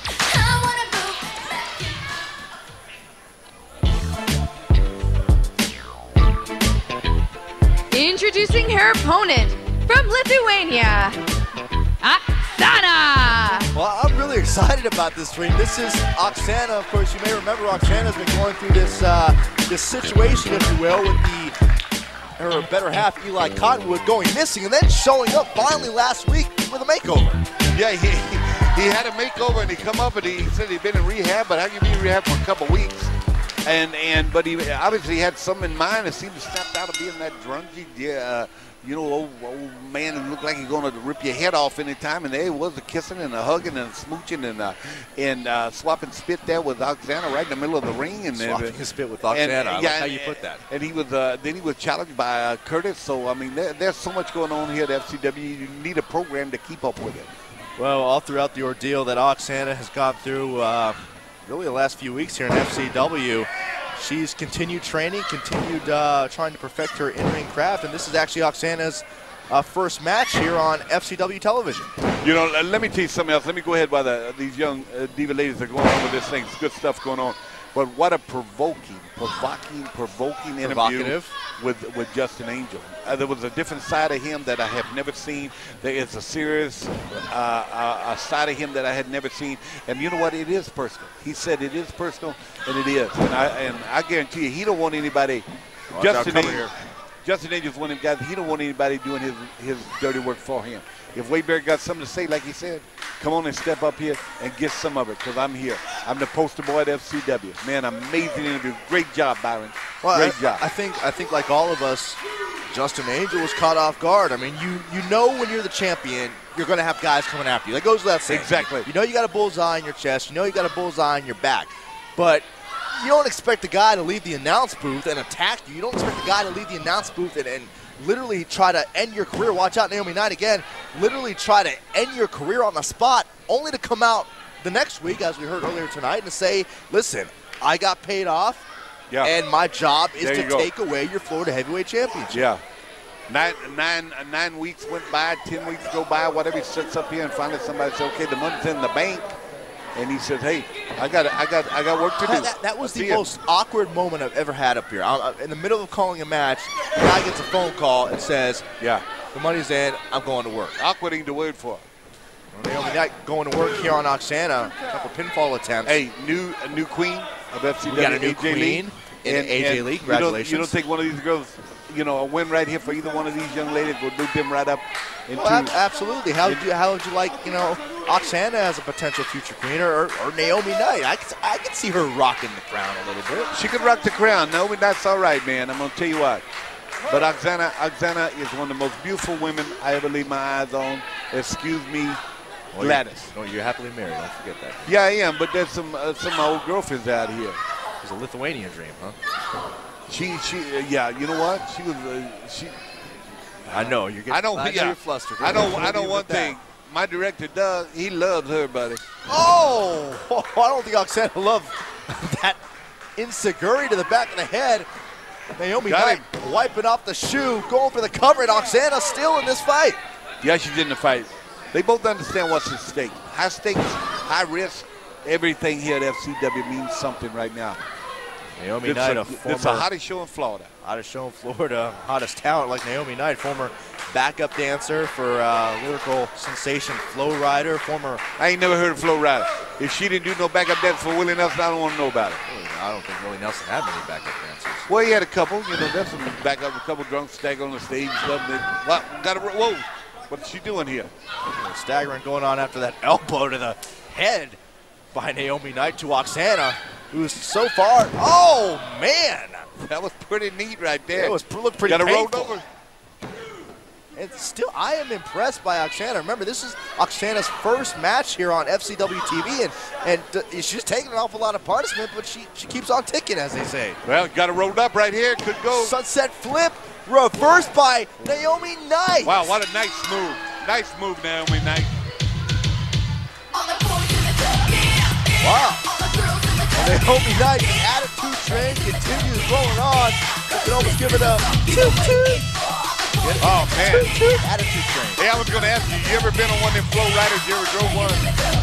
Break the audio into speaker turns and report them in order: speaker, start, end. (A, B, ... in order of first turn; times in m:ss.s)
0:00.5-0:01.3 A
0:07.9-0:11.2 A
0:12.0-0:13.7 A
0:13.7-0:21.5 B
0:22.4-0:27.4 B
0:27.7-0:33.1 C
0:33.6-0:57.3 C
0:48.3-0:50.6 B
0:57.8-1:11.9 B
1:12.2-1:50.6 C
1:20.6-1:21.3 B
1:35.9-1:36.7 B
1:50.0-2:18.6 B
1:58.3-1:58.9 C
2:19.2-2:22.5 B
2:20.2-2:20.7 C
2:22.3-2:22.6 C
2:23.3-2:29.3 C
2:29.9-2:33.2 C
2:32.2-2:38.6 B
2:39.3-2:40.8 B
2:40.8-2:41.8 C
2:42.5-2:46.0 B
2:45.8-2:55.7 C
2:47.8-2:50.7 B
2:55.4-3:03.5 B
3:03.5-3:06.4 C
3:07.1-3:12.2 C
3:12.7-3:14.9 B
3:12.8-3:13.3 C
3:14.8-3:17.6 C
3:18.0-3:19.2 B
3:20.1-3:22.8 C
3:23.7-3:26.6 B
3:24.3-3:29.0 C
3:29.2-3:32.6 B
3:33.2-3:34.9 B
3:35.6-3:40.0 B
3:35.8-3:36.2 C
3:40.4-3:47.8 C
3:48.6-3:49.9 B
3:48.8-3:50.7 C
3:50.8-3:58.2 B
3:58.4-4:02.4 C
4:02.4-4:04.9 B
4:04.9-4:11.1 C
4:11.5-4:14.6 B
4:15.1-4:19.7 B
4:19.8-4:22.6 C
4:21.1-4:22.5 B
4:24.1-4:34.0 B
4:34.0-4:36.0 C
4:35.7-4:39.5 B
4:39.2-4:41.9 C
4:45.4-4:45.8 B
4:46.7-4:52.5 B
4:53.2-4:54.1 C
4:53.9-4:55.2 B
4:55.2-4:58.3 C